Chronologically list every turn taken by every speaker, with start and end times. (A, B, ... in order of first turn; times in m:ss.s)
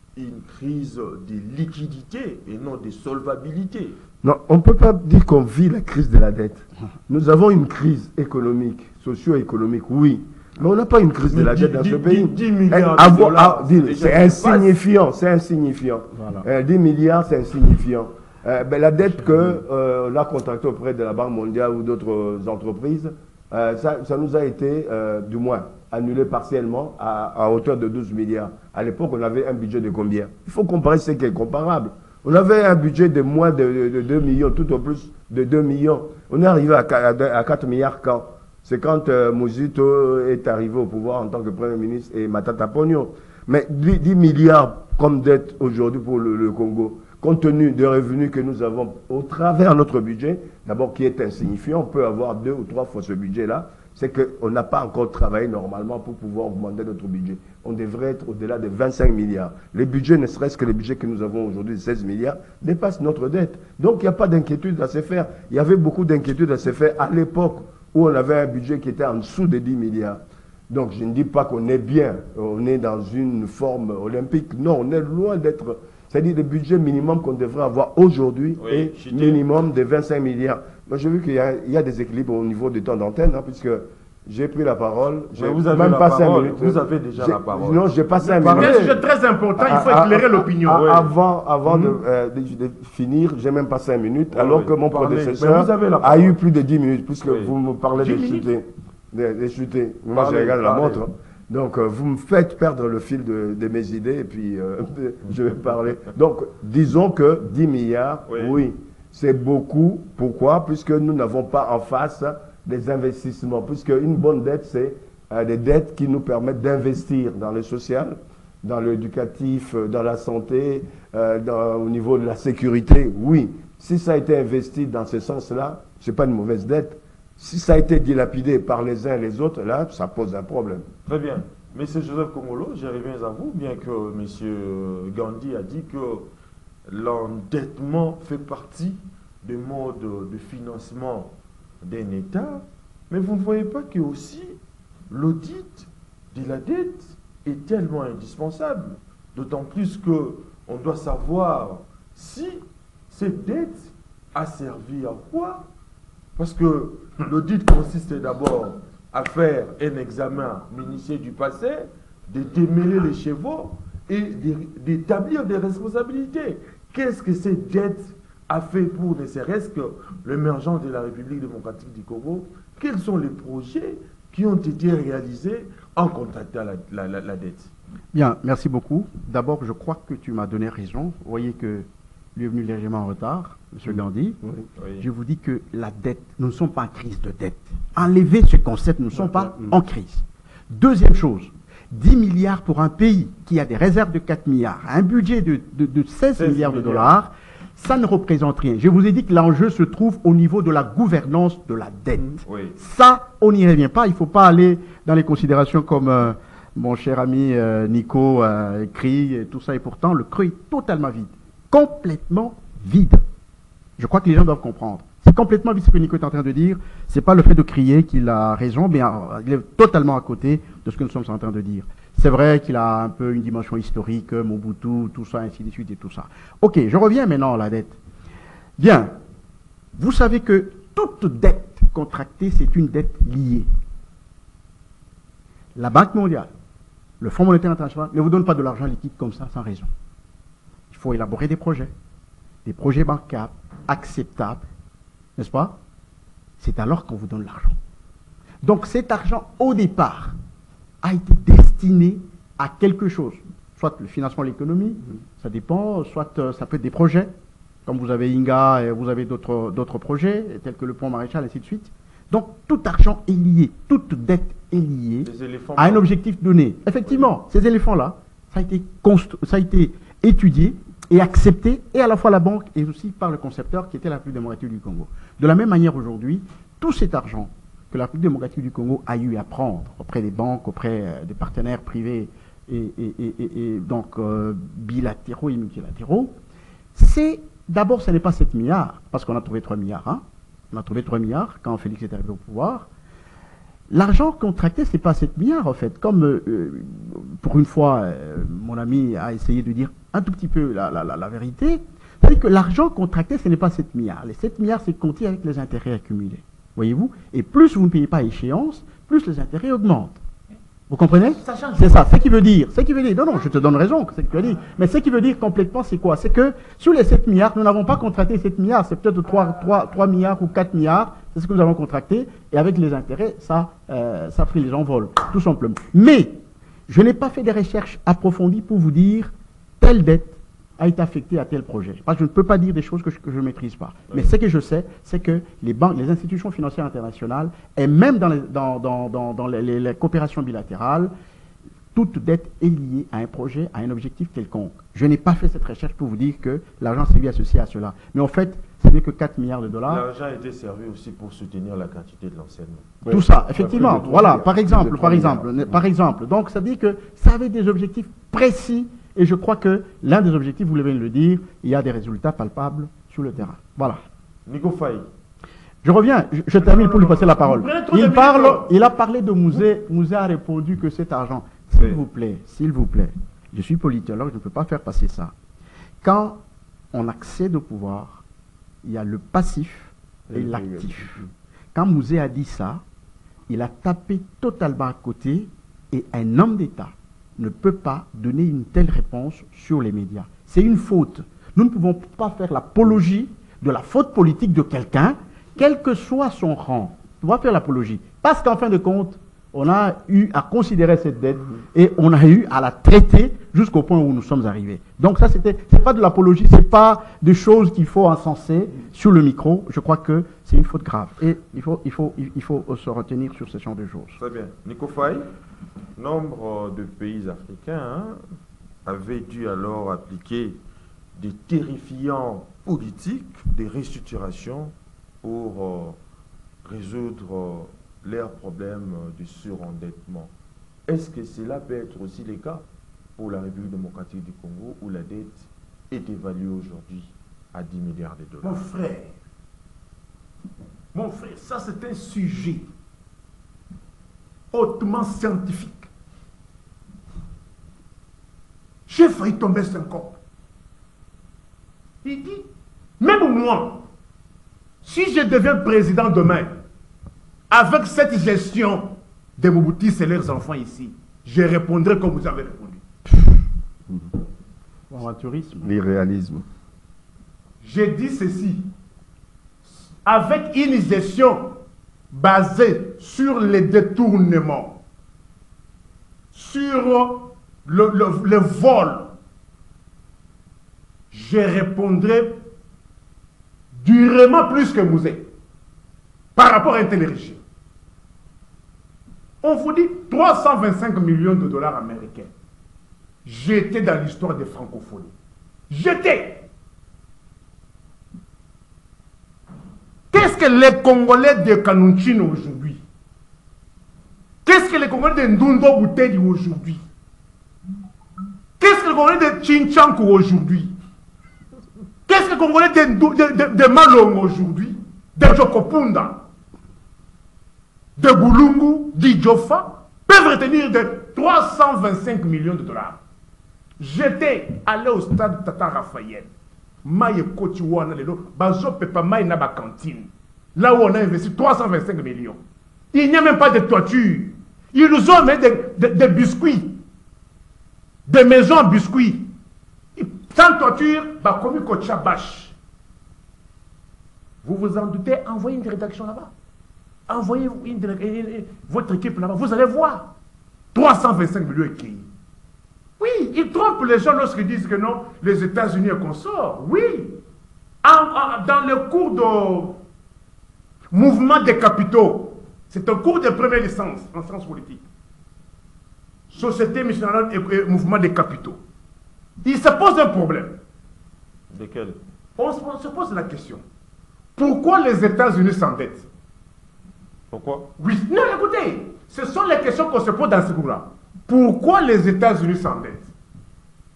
0:00.2-0:04.0 A
0:04.2-1:28.8 B
0:11.3-0:14.7 A
0:16.2-0:16.4 C
1:18.6-1:19.4 A
1:25.3-1:29.0 A
1:28.2-1:30.9 D
1:29.6-2:10.8 B
1:30.7-1:31.1 A
1:31.6-1:32.0 A
1:34.3-1:36.4 A
1:37.2-1:37.5 A
1:38.0-1:38.5 D
1:40.1-1:41.0 A
1:48.3-1:48.6 A
2:11.0-2:16.3 A
2:16.9-2:35.7 A
2:36.4-2:57.7 A
2:58.1-3:04.4 C
3:03.9-3:04.6 B
3:04.8-3:05.1 A
3:05.0-3:33.2 C
3:09.2-3:09.8 B
3:16.4-3:17.2 A
3:22.2-3:22.8 A
3:34.0-3:48.0 C
3:48.8-3:49.1 C
3:50.0-3:53.7 C
3:55.7-3:56.5 C
3:57.2-3:59.9 C
4:00.9-4:01.9 C
4:02.6-4:04.6 C
4:05.4-4:05.8 C
4:06.6-4:07.8 C
4:08.6-4:10.3 C
4:11.0-4:17.3 C
4:17.8-4:46.4 C
4:25.2-4:26.1 A
4:46.9-4:52.9 C
4:53.9-5:10.2 C
5:10.9-5:41.1 C
5:11.1-5:12.0 D
5:41.9-5:50.0 C
5:49.9-5:52.9 A
5:53.0-5:55.8 B
5:53.1-6:04.0 C
6:04.4-6:05.1 A
6:05.8-6:15.3 C
6:06.6-6:08.7 D
6:16.0-6:16.4 C
6:16.9-6:18.2 C
6:18.8-6:21.2 C
6:20.3-6:21.3 B
6:21.7-6:22.8 C
6:23.5-6:54.2 C
6:54.2-6:55.3 A
6:56.0-6:58.2 A
6:58.8-7:00.6 A
7:01.2-7:06.0 A
7:06.6-7:10.3 A
7:10.9-7:12.6 A
7:13.2-7:18.6 A
7:18.4-7:19.1 D
7:20.9-7:22.7 D
7:24.5-7:25.9 D
7:28.9-7:30.2 D
7:32.0-7:32.4 D
7:33.0-7:33.8 D
7:34.8-7:36.5 D
7:37.5-7:42.8 D
7:44.9-7:45.7 C
7:45.6-7:46.4 B
7:47.6-7:48.6 D
7:50.0-7:51.5 D
7:52.1-7:54.8 D
7:56.3-7:59.1 D
8:01.1-8:02.4 D
8:03.7-8:05.3 D
8:06.4-8:07.4 D
8:09.4-8:12.3 D
8:13.2-8:15.1 D
8:15.7-8:16.4 D
8:20.1-8:22.8 D
8:24.4-8:26.8 D
8:28.6-8:30.7 D
8:32.1-8:36.2 D
8:38.0-8:43.0 D
8:43.8-8:46.3 D
8:46.8-8:52.4 D
8:52.9-8:56.8 D
8:58.1-8:59.3 D
9:00.0-9:02.5 D
9:04.4-9:06.3 D
9:07.1-9:10.1 D
9:10.7-9:12.1 D
9:13.0-9:17.2 D
9:17.8-9:19.8 D
9:20.9-9:24.8 D
9:26.3-9:28.6 D
9:29.4-9:30.6 D
9:31.5-9:32.0 A
9:32.4-9:33.6 D
9:34.4-9:36.0 D
9:37.3-9:37.7 A
9:37.8-9:43.1 D